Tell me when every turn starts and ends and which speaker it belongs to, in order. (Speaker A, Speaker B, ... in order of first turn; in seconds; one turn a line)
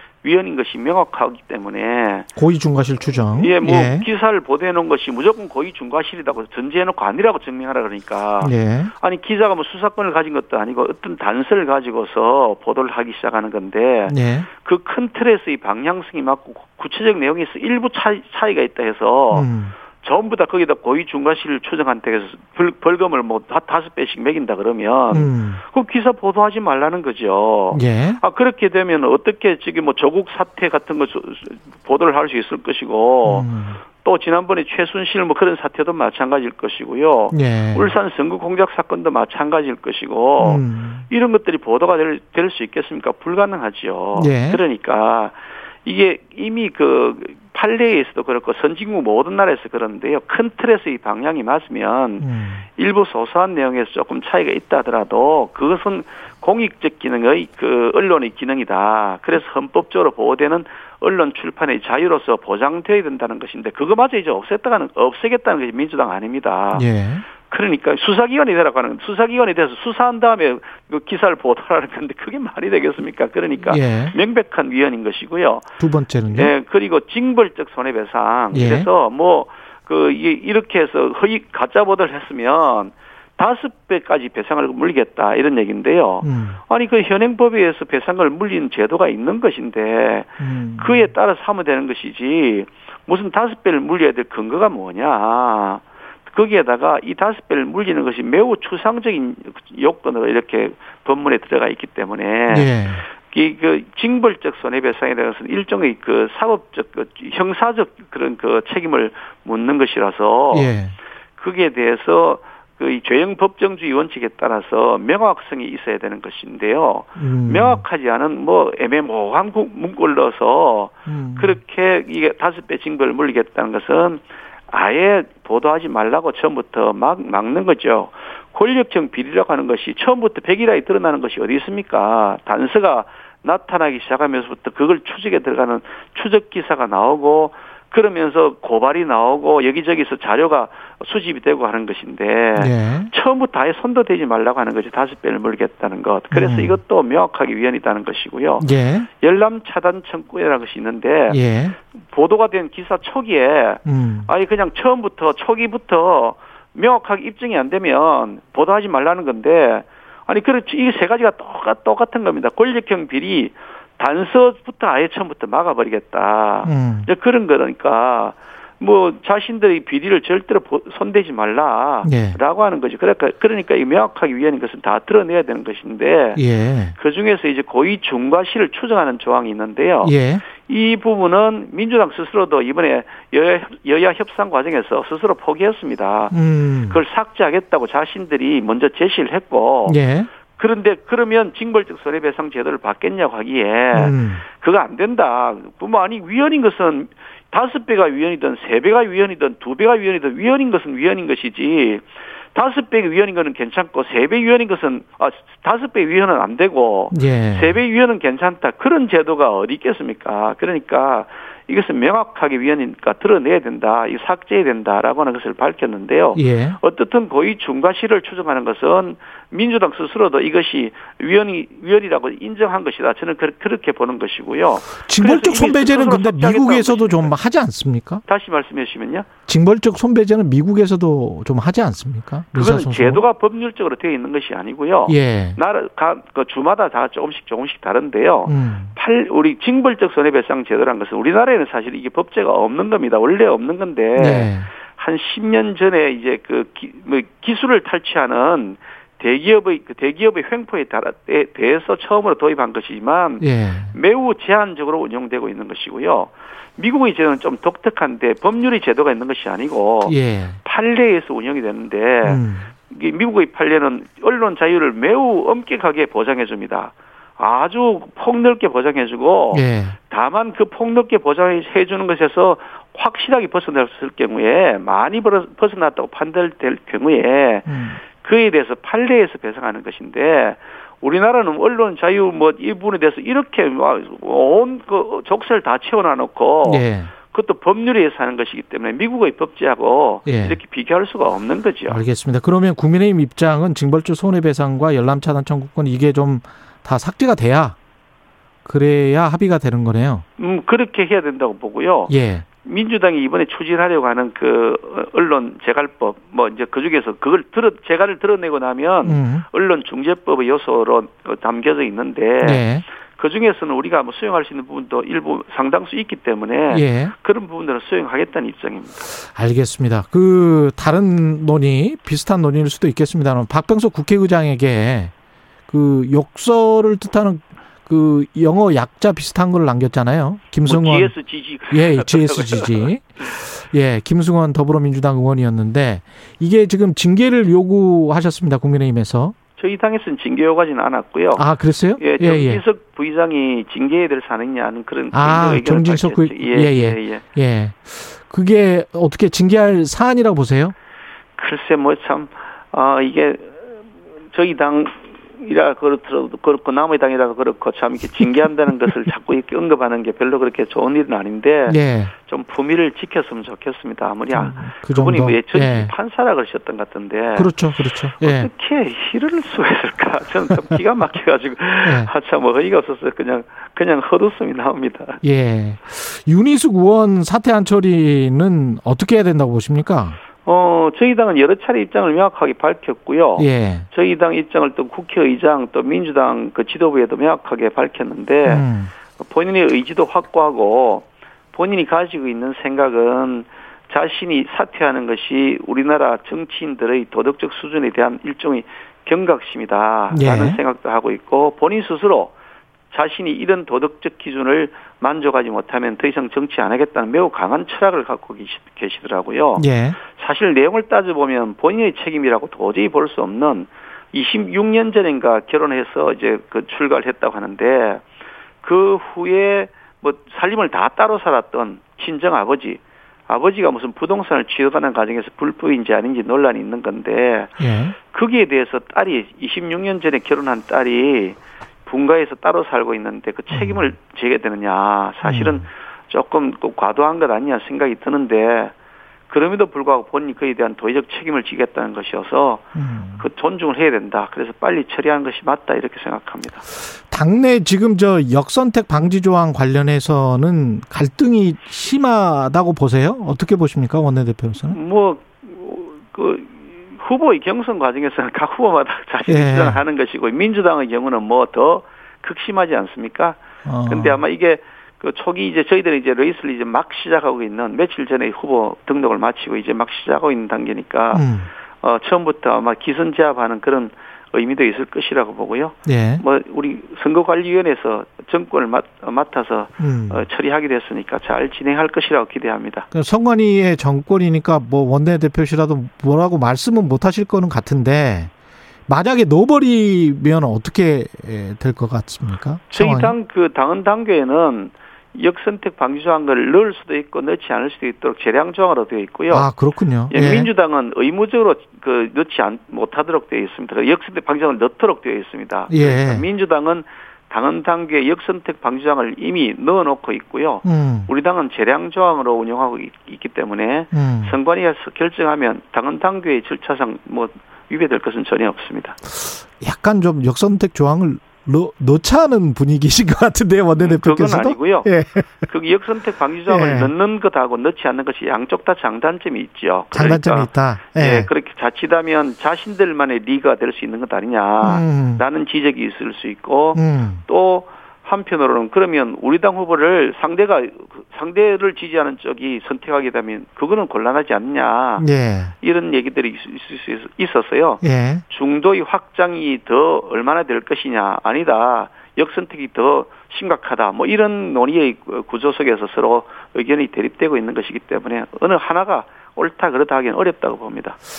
Speaker A: 0.2-2.3
Speaker B: 2.4-4.1
Speaker A: 3.4-66.9
Speaker B: 8.4-8.9
Speaker B: 14.1-14.5
Speaker B: 19.3-19.7
Speaker B: 25.1-25.6
Speaker B: 27.7-28.2
Speaker B: 33.2-33.8
Speaker B: 37.3-37.9
Speaker B: 40.4-41.0
Speaker B: 44.1-44.6
Speaker B: 52.2-52.6
Speaker B: 66.7-67.2
Speaker A: 67.5-75.7
Speaker B: 73.7-74.1
Speaker B: 75.8-76.5
Speaker A: 76.3-110.7
Speaker B: 78.5-78.9
Speaker B: 86.2-86.6
Speaker B: 90.4-91.1
Speaker B: 102.5-103.0
Speaker B: 110.5-110.9
Speaker A: 111.3-151.4
Speaker B: 117.2-117.8
Speaker B: 121.1-121.6
Speaker B: 142.6-143.1
Speaker B: 146.3-146.8
Speaker B: 148.6-149.1
Speaker B: 151.3-151.8
Speaker A: 151.9-176.4
Speaker B: 153.8-154.3
Speaker B: 166.6-167.1
Speaker B: 172.0-172.4
Speaker B: 176.3-176.9
Speaker A: 176.9-190.0
Speaker B: 180.0-180.4
Speaker B: 186.3-187.0
Speaker B: 189.8-190.3
Speaker A: 190.5-227.3
Speaker B: 193.9-194.4
Speaker B: 207.1-207.8
Speaker B: 216.3-216.8
Speaker B: 225.0-228.2
Speaker A: 228.2-229.3
Speaker B: 229.5-233.2
Speaker A: 232.5-292.0
Speaker B: 235.1-235.6
Speaker B: 238.5-238.9
Speaker B: 244.2-244.7
Speaker B: 253.4-253.9
Speaker B: 260.1-260.6
Speaker B: 262.2-262.7
Speaker B: 269.5-270.0
Speaker B: 277.7-278.0
Speaker B: 286.6-287.1
Speaker B: 290.2-290.6
Speaker B: 291.9-297.8
Speaker B: 298.6-300.2
Speaker A: 300.4-319.1
Speaker B: 302.1-302.4
Speaker B: 309.0-309.4
Speaker B: 312.4-312.8
Speaker B: 316.7-317.1
Speaker B: 319.2-325.1
Speaker B: 325.7-331.1
Speaker A: 330.6-332.9
Speaker B: 331.7-339.3
Speaker A: 339.6-341.5
Speaker B: 341.4-342.6
Speaker A: 342.0-347.2
Speaker B: 345.1-350.7
Speaker A: 351.4-367.6
Speaker B: 361.7-362.1
Speaker B: 364.3-365.9
Speaker B: 367.3-368.5
Speaker A: 368.1-375.2
Speaker B: 371.8-372.1
Speaker B: 375.2-380.2
Speaker A: 380.4-402.3
Speaker B: 383.4-383.9
Speaker B: 388.4-388.9
Speaker B: 400.1-400.6
Speaker A: 402.9-418.0
Speaker B: 409.6-410.0
Speaker A: 418.6-438.7
Speaker B: 427.6-427.9
Speaker B: 433.5-433.9
Speaker B: 435.2-435.6
Speaker A: 439.3-442.6
Speaker B: 442.7-443.2
Speaker A: 443.2-446.6
Speaker B: 447.1-454.8
Speaker A: 454.7-471.3
Speaker B: 459.3-459.8
Speaker B: 463.6-464.2
Speaker B: 471.1-471.5
Speaker A: 471.8-482.9
Speaker B: 475.9-476.2
Speaker B: 479.8-480.3
Speaker B: 482.9-488.3
Speaker B: 488.9-493.1
Speaker A: 492.7-499.5
Speaker B: 499.3-500.5
Speaker A: 500.1-519.0
Speaker B: 505.7-506.2
Speaker B: 510.6-511.1
Speaker B: 513.9-514.4
Speaker B: 519.3-525.5
Speaker A: 523.8-524.9
Speaker A: 525.4-545.1
Speaker B: 526.5-526.9
Speaker B: 529.9-531.3
Speaker B: 534.6-535.2
Speaker B: 536.7-537.2
Speaker B: 545.0-545.5
Speaker A: 545.6-561.0
Speaker B: 547.8-548.2